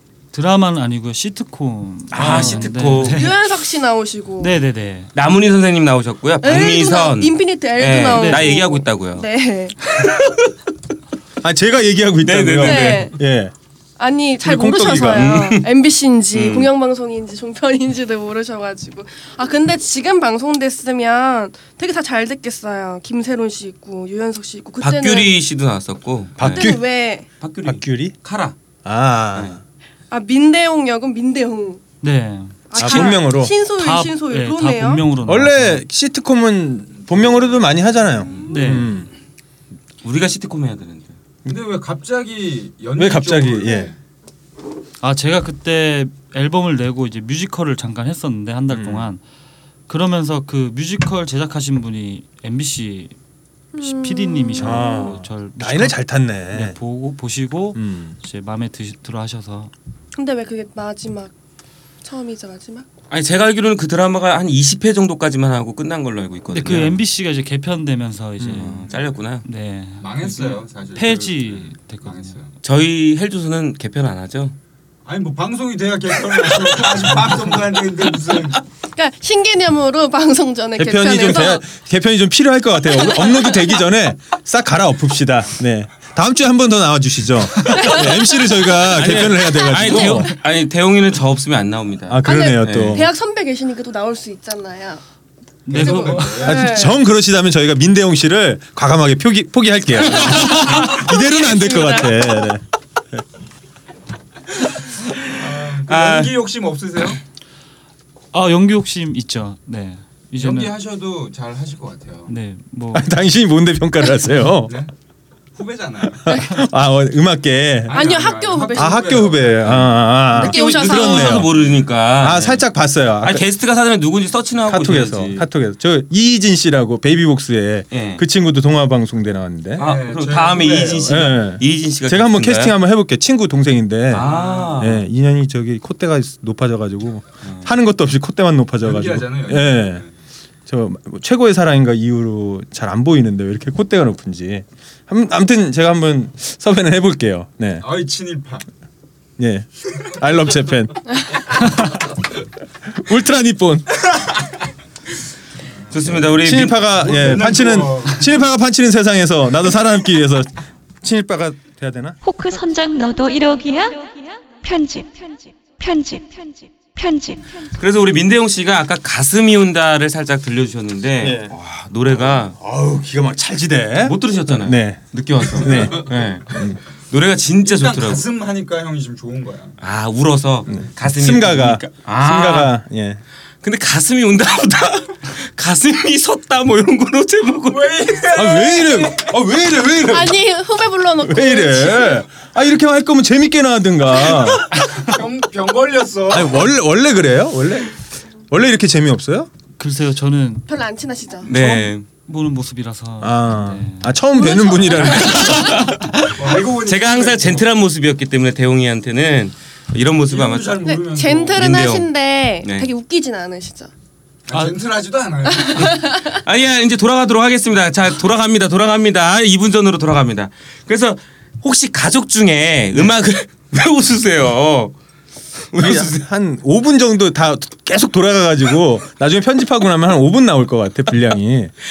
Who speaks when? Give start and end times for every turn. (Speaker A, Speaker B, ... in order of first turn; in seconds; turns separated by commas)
Speaker A: 0.3-3.4, Speaker B: 2.1-3.3, Speaker C: 2.2-2.7, Speaker D: 3.0-4.5, Speaker A: 4.4-5.1, Speaker B: 5.2-9.2, Speaker D: 6.4-9.8, Speaker A: 8.1-8.6, Speaker B: 9.9-10.4, Speaker C: 11.4-13.5, Speaker B: 12.2-13.2, Speaker D: 12.6-13.2, Speaker D: 14.0-25.3, Speaker C: 14.4-15.4, Speaker B: 15.1-15.7, Speaker B: 16.3-16.7, Speaker B: 24.8-26.7, Speaker C: 26.4-26.9, Speaker D: 26.4-27.3, Speaker B: 27.4-28.6, Speaker C: 27.6-28.1, Speaker C: 28.9-29.6, Speaker D: 30.1-31.8, Speaker A: 32.0-35.8, Speaker D: 32.7-35.0, Speaker C: 32.8-33.5, Speaker C: 35.2-39.1, Speaker E: 37.1-37.4, Speaker A: 38.4-38.9, Speaker B: 40.0-41.2, Speaker E: 41.5-44.0, Speaker C: 43.0-43.9, Speaker A: 45.0-49.2, Speaker C: 48.7-49.1, Speaker A: 49.9-53.1, Speaker D: 53.7-55.1, Speaker A: 53.8-59.7, Speaker C: 54.6-56.8, Speaker C: 57.8-58.2, Speaker D: 60.1-61.3, Speaker D: 62.0-62.9, Speaker B: 63.1-67.0, Speaker A: 66.5-72.3, Speaker C: 68.4-68.7, Speaker B: 68.5-69.4, Speaker E: 70.0-72.5, Speaker B: 72.6-74.5, Speaker E: 75.0-78.6, Speaker D: 79.0-81.6, Speaker C: 80.8-90.3, Speaker D: 83.0-83.5, Speaker D: 87.7-88.1, Speaker B: 88.9-93.0, Speaker C: 92.1-93.1, Speaker D: 92.2-95.0, Speaker A: 95.7-96.5, Speaker E: 95.7-96.7, Speaker D: 95.7-96.9, Speaker C: 96.4-102.6, Speaker D: 100.3-102.4, Speaker E: 105.3-107.2, Speaker B: 105.9-106.3, Speaker A: 108.3-110.7, Speaker E: 110.4-112.3, Speaker A: 112.3-113.1, Speaker C: 112.9-114.7, Speaker E: 114.7-114.9, Speaker E: 115.5-116.3, Speaker C: 116.3-118.0, Speaker D: 116.3-116.6, Speaker E: 117.9-119.9, Speaker D: 117.9-119.3, Speaker C: 118.7-121.6, Speaker D: 120.3-121.5, Speaker B: 120.3-122.7, Speaker C: 122.2-123.4, Speaker B: 123.2-125.5, Speaker C: 124.7-129.8, Speaker B: 127.9-128.2, Speaker E: 129.8-131.3, Speaker B: 129.8-132.7, Speaker C: 131.1-140.0, Speaker B: 134.1-135.1, Speaker E: 134.2-134.9, Speaker E: 138.8-140.1, Speaker C: 140.7-147.8, Speaker E: 147.8-148.7, Speaker C: 149.4-151.9, Speaker C: 152.9-154.1, Speaker B: 155.9-156.8, Speaker C: 156.1-160.5, Speaker E: 156.9-158.2, Speaker C: 161.0-162.2, Speaker F: 162.2-167.7, Speaker B: 167.8-172.6, Speaker C: 171.2-171.5, Speaker C: 172.1-176.8, Speaker B: 174.0-178.3, Speaker E: 177.6-179.8, Speaker B: 179.8-182.7, Speaker C: 180.7-183.2, Speaker B: 183.6-187.9, Speaker E: 187.7-189.3, Speaker C: 188.3-190.4, Speaker D: 190.1-192.2, Speaker C: 191.2-194.7, Speaker E: 194.8-196.7, Speaker C: 196.3-198.0, Speaker C: 198.5-199.5, Speaker A: 199.8-200.7, Speaker D: 200.7-201.5, Speaker B: 201.5-202.1, Speaker A: 201.5-204.2, Speaker C: 203.2-205.7, Speaker D: 204.4-205.8, Speaker B: 205.1-205.9, Speaker A: 205.6-205.8, Speaker E: 206.3-207.7, Speaker B: 206.8-210.8, Speaker E: 210.3-211.9, Speaker D: 210.8-213.9, Speaker B: 211.6-212.1, Speaker B: 212.6-212.9, Speaker E: 214.5-216.0, Speaker D: 215.7-216.3, Speaker B: 216.2-224.9, Speaker B: 225.7-226.2, Speaker C: 225.8-231.7